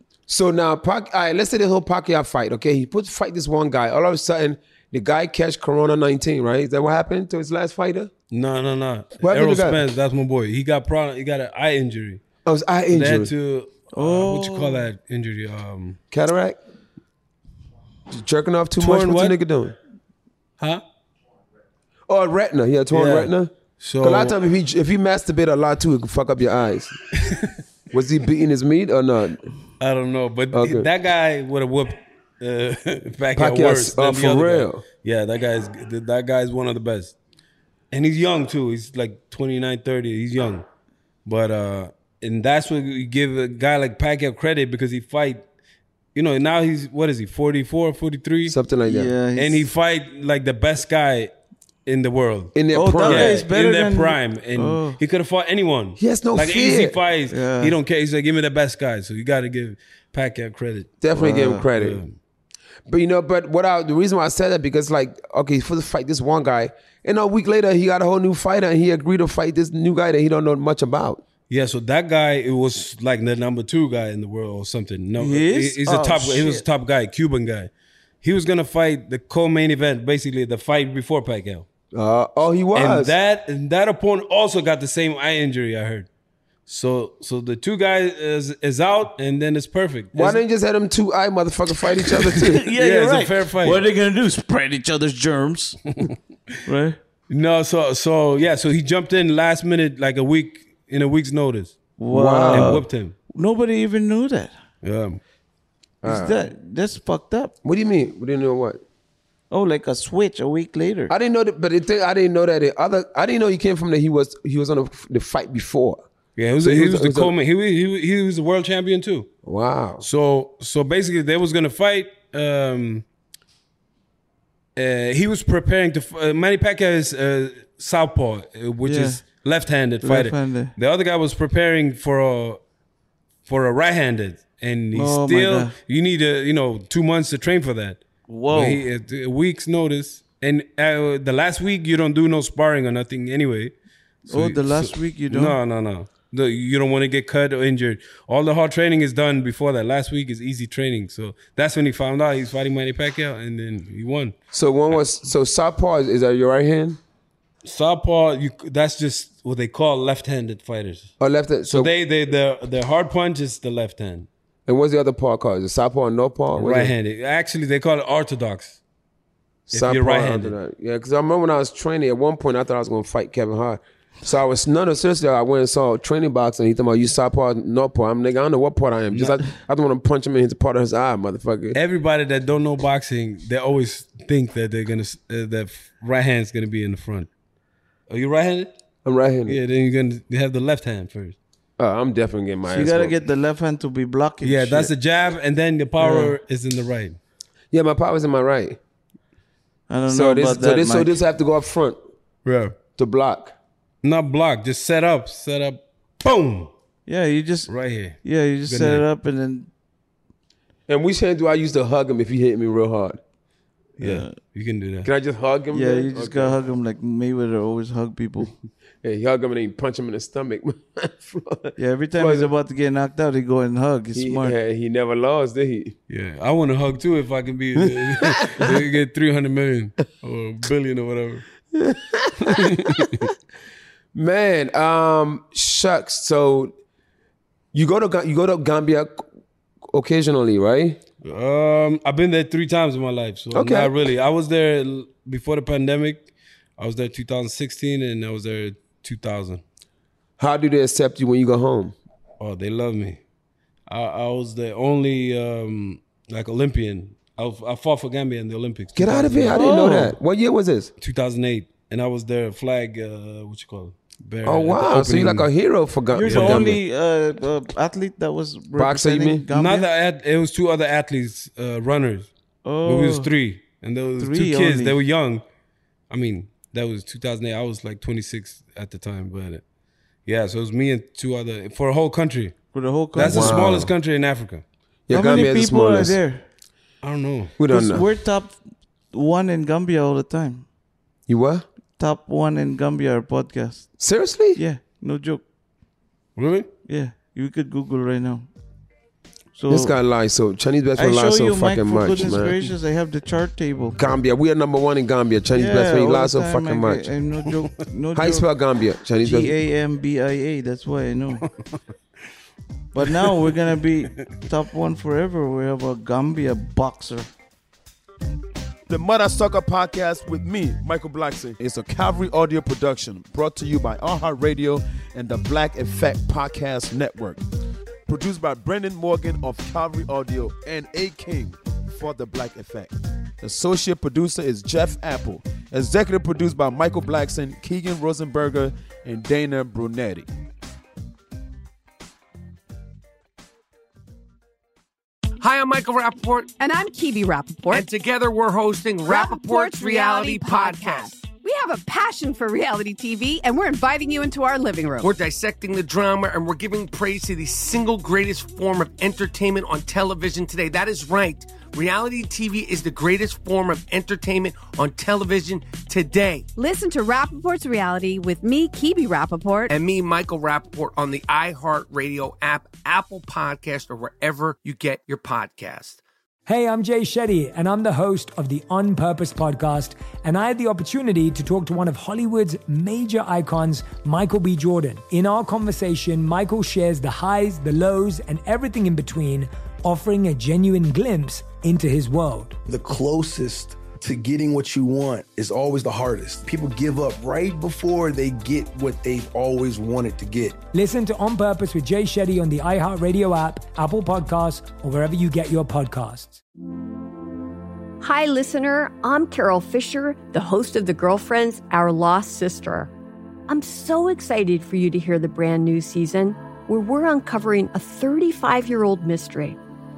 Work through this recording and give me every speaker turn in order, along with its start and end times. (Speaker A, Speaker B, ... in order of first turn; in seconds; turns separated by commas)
Speaker A: 0.3-8.1, Speaker B: 8.3-12.2, Speaker A: 9.2-9.8, Speaker A: 12.5-13.2, Speaker B: 12.9-16.0, Speaker C: 13.9-14.9, Speaker A: 16.2-16.6, Speaker A: 18.1-19.7, Speaker B: 18.8-19.4, Speaker A: 22.1-23.5, Speaker B: 22.9-24.4, Speaker A: 24.0-26.9, Speaker A: 27.9-29.4, Speaker B: 29.8-37.1, Speaker A: 30.5-30.8, Speaker A: 33.5-34.8, Speaker B: 37.9-40.6, Speaker B: 41.2-45.4, Speaker B: 46.1-48.6, Speaker C: 48.8-49.7, Speaker B: 49.3-51.3, Speaker B: 51.9-61.0, Speaker D: 52.6-53.2, Speaker C: 52.7-55.0, Speaker A: 52.9-53.4, Speaker A: 56.1-56.9, Speaker C: 57.3-57.8, Speaker D: 61.0-61.6, Speaker C: 61.1-61.7, Speaker B: 61.6-62.1, Speaker A: 62.9-71.2, Speaker B: 71.5-77.7, Speaker C: 75.2-76.7, Speaker B: 78.2-81.7, Speaker A: 81.9-83.0, Speaker B: 82.7-86.1, Speaker B: 86.7-90.4, Speaker A: 90.2-92.2, Speaker B: 92.2-93.8, Speaker D: 92.2-92.6, Speaker C: 92.5-95.8, Speaker C: 96.7-97.0, Speaker B: 97.3-101.7, Speaker C: 102.0-104.5, Speaker D: 102.2-102.5, Speaker B: 102.5-103.1, Speaker B: 104.8-105.2, Speaker C: 106.0-107.5, Speaker A: 107.7-108.8, Speaker C: 109.5-111.1, Speaker A: 111.1-116.0, Speaker B: 116.3-119.3, Speaker D: 116.6-116.9, Speaker A: 116.9-117.3, Speaker A: 119.5-120.0, Speaker B: 120.0-123.0, Speaker B: 124.8-132.6, Speaker C: 128.8-129.2, Speaker C: 130.0-130.7, Speaker B: 133.4-143.7, Speaker C: 134.9-135.8, Speaker C: 138.3-138.8, Speaker C: 144.2-145.6, Speaker B: 144.3-154.3, Speaker A: 154.5-157.0, Speaker B: 157.6-161.1, Speaker A: 161.2-161.9, Speaker B: 161.7-164.3, Speaker A: 164.7-166.9, Speaker B: 166.5-168.8, Speaker B: 169.7-170.6, Speaker A: 169.7-181.7, Speaker D: 169.8-170.3, Speaker B: 179.1-179.4, Speaker B: 181.7-187.3, Speaker B: 188.1-188.7, Speaker A: 189.1-189.4, Speaker B: 189.4-191.3, Speaker A: 191.8-193.2, Speaker C: 192.7-194.9, Speaker B: 194.4-197.2, Speaker C: 196.0-196.4, Speaker A: 197.7-198.8, Speaker C: 199.9-201.3, Speaker D: 200.1-201.0, Speaker A: 200.3-202.0, Speaker B: 202.4-202.8, Speaker A: 203.0-203.5, Speaker B: 204.0-206.7, Speaker C: 207.1-207.7, Speaker B: 207.7-209.0, Speaker C: 208.2-209.7, Speaker A: 210.9-213.2, Speaker B: 214.0-215.1, Speaker C: 214.0-214.3, Speaker A: 215.1-216.6, Speaker C: 215.7-218.5, Speaker D: 215.9-216.5, Speaker A: 219.0-221.7, Speaker C: 221.8-224.6, Speaker D: 224.2-224.5, Speaker A: 224.2-225.9, Speaker B: 226.1-231.5, Speaker B: 232.5-233.1, Speaker A: 234.1-236.7, Speaker A: 237.7-239.1, Speaker A: 239.9-241.0, Speaker B: 241.2-249.6, Speaker A: 243.6-243.9, Speaker A: 250.4-251.9, Speaker B: 252.4-253.2, Speaker B: 253.9-259.8, Speaker D: 258.9-259.9, Speaker A: 259.2-260.9, Speaker C: 259.5-260.1, Speaker B: 261.0-265.5, Speaker D: 264.4-264.7, Speaker A: 264.7-266.2, Speaker C: 266.1-269.9, Speaker B: 266.2-266.8, Speaker D: 268.8-269.4, Speaker A: 268.8-269.2, Speaker B: 269.5-272.3, Speaker C: 272.6-273.3, Speaker B: 272.8-275.4, Speaker C: 274.2-275.0, Speaker B: 276.1-279.6, Speaker B: 280.2-282.5, Speaker C: 282.7-283.8, Speaker B: 283.1-284.6, Speaker C: 285.1-286.4, Speaker D: 285.1-286.1, Speaker A: 285.4-286.1, Speaker B: 287.0-287.6, Speaker C: 287.6-290.6, Speaker A: 291.3-291.6, Speaker C: 292.0-293.9, Speaker A: 294.0-294.5, Speaker C: 294.5-295.4, Speaker B: 296.4-296.7, Speaker C: 296.9-298.5, Speaker C: 299.5-300.0, Speaker A: 299.8-302.5, Speaker C: 300.9-304.0, Speaker A: 304.0-306.2, Speaker C: 305.5-308.4, Speaker D: 305.6-306.8, Speaker B: 307.4-307.7, Speaker D: 308.1-308.4, Speaker A: 308.6-309.2, Speaker D: 309.2-309.5, Speaker C: 309.2-311.4, Speaker C: 312.9-317.3, Speaker B: 313.1-313.6, Speaker D: 319.1-320.3, Speaker A: 320.1-320.7, Speaker D: 321.1-327.3, Speaker D: 328.1-332.9, Speaker D: 333.4-338.4, Speaker A: 333.5-334.2, Speaker A: 338.1-339.2, Speaker D: 339.2-340.1, Speaker E: 345.4-346.6, Speaker F: 346.6-347.8, Speaker E: 347.7-351.1, Speaker F: 349.1-355.1, Speaker E: 355.0-366.4, Speaker F: 366.6-369.7, Speaker E: 369.7-376.0, Speaker G: 376.5-392.6, Speaker H: 392.6-400.6, Speaker G: 400.7-406.4, Speaker I: 408.0-412.9, Speaker I: 413.5-419.6